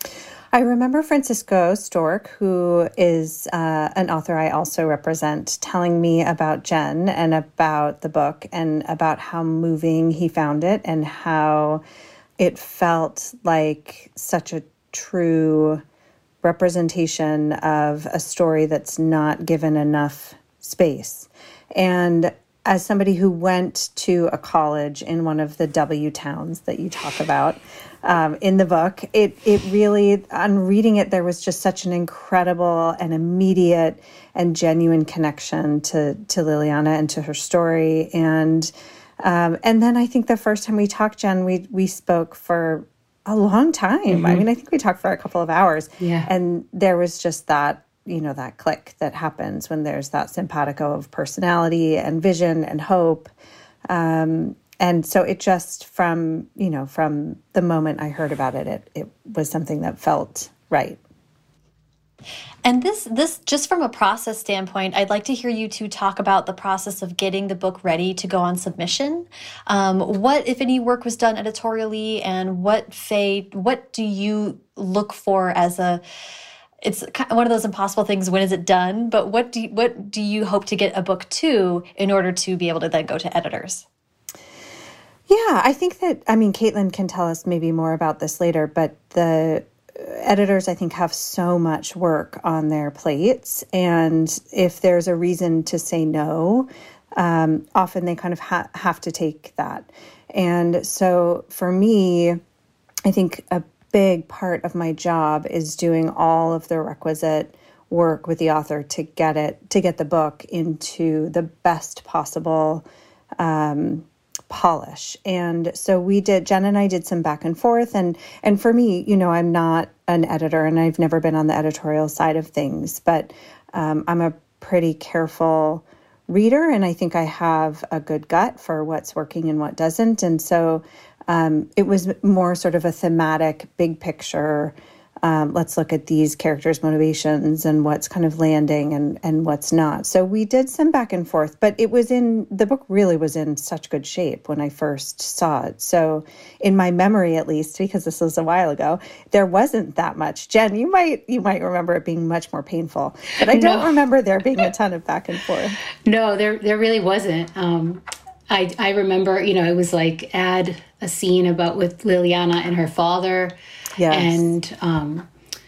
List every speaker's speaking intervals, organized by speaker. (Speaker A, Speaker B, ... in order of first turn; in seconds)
Speaker A: 0.5-11.8, 12.4-15.8, 16.4-53.3, 53.9-61.0, 85.3-102.4, 103.0-112.8, 113.4-155.8, 164.0-164.5
Speaker B: 44.1-44.4, 46.0-46.3, 153.5-153.9, 156.1-163.6, 164.1-165.3
Speaker C: 62.6-76.0, 76.8-83.8